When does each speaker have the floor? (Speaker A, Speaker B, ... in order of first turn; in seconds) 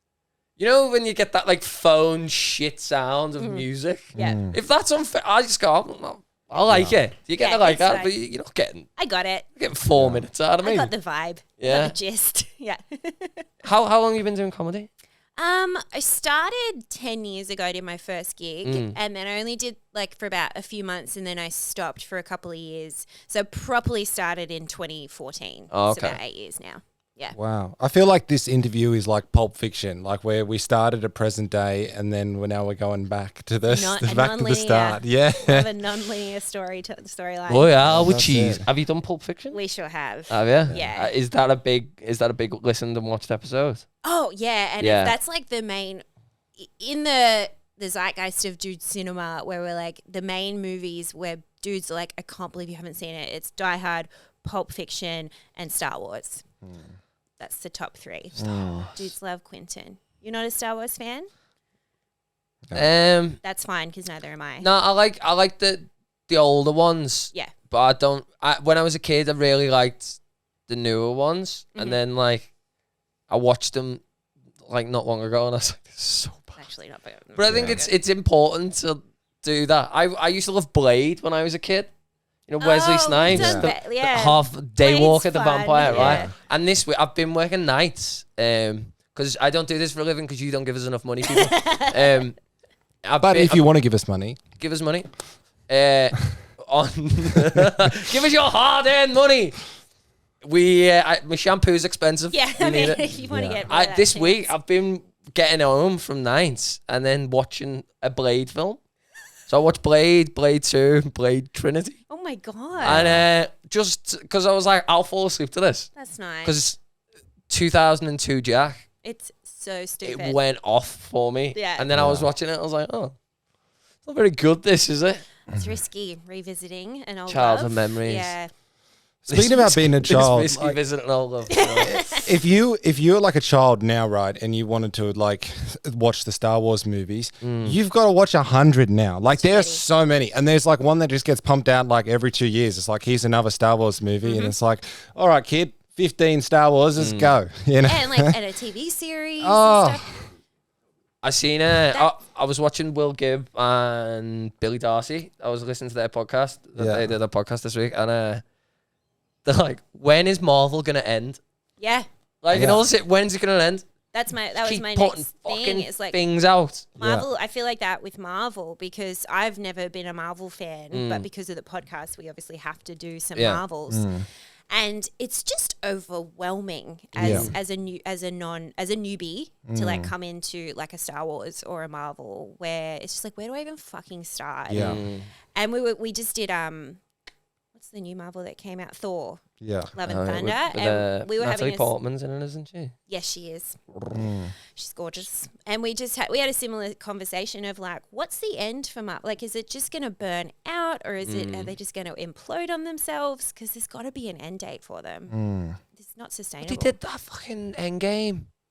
Speaker A: 0.6-8.9, 9.6-10.9, 11.6-11.9, 13.6-14.9, 18.6-19.0, 25.7-26.2, 37.5-39.6, 40.3-43.8, 44.8-45.1, 62.7-63.4, 64.6-72.5, 73.3-74.0, 74.7-76.6, 77.4-81.9, 82.5-92.4, 93.0-93.7, 94.6-95.1, 95.7-99.6, 100.4-103.0, 103.7-108.8, 109.5-112.0, 112.8-115.9, 116.4-116.8, 117.5-118.8, 120.0-123.2, 124.0-125.2, 127.3-128.3, 129.3-132.3, 137.4-137.8, 147.0-147.3, 151.2-158.4, 159.4-161.4, 162.4-163.8, 164.6-166.9, 170.9-171.3, 173.4-173.6, 177.2-177.5, 184.7-185.3, 190.1-192.9, 201.2-201.7, 206.6-208.5
Speaker B: 3.4-4.4, 7.4-8.1, 9.0-9.5, 10.6-13.5, 15.4-27.4, 33.7-37.8, 39.5-41.1, 44.0-46.0, 46.6-56.4, 57.4-61.3, 63.4-64.7, 76.6-77.9, 82.6-86.3, 91.3-92.2, 102.3-104.5, 112.1-113.1, 116.0-116.6, 119.0-120.4, 121.5-121.9, 125.5-128.5, 131.5-132.4, 139.4-139.8, 144.2-144.5, 147.8-150.1, 161.8-162.1, 164.1-166.2, 167.0-185.0, 185.6-187.0, 187.8-189.4, 189.9-191.9, 193.1-193.8, 194.7-205.3, 206.0-206.9
Speaker C: 4.2-4.6, 6.7-7.0, 9.9-10.3, 27.4-35.7, 37.8-38.7, 58.4-58.9, 77.5-77.8, 83.3-83.7, 85.9-86.3, 93.2-94.4, 103.3-103.6, 112.8-113.2, 121.9-122.3, 129.3-130.8, 132.1-148.3, 149.4-150.2, 156.8-157.1, 162.5-162.8, 167.0-167.3, 173.9-174.2, 177.2-177.5, 179.7-180.1, 184.7-185.0, 189.6-189.9, 194.1-194.5, 205.3-205.8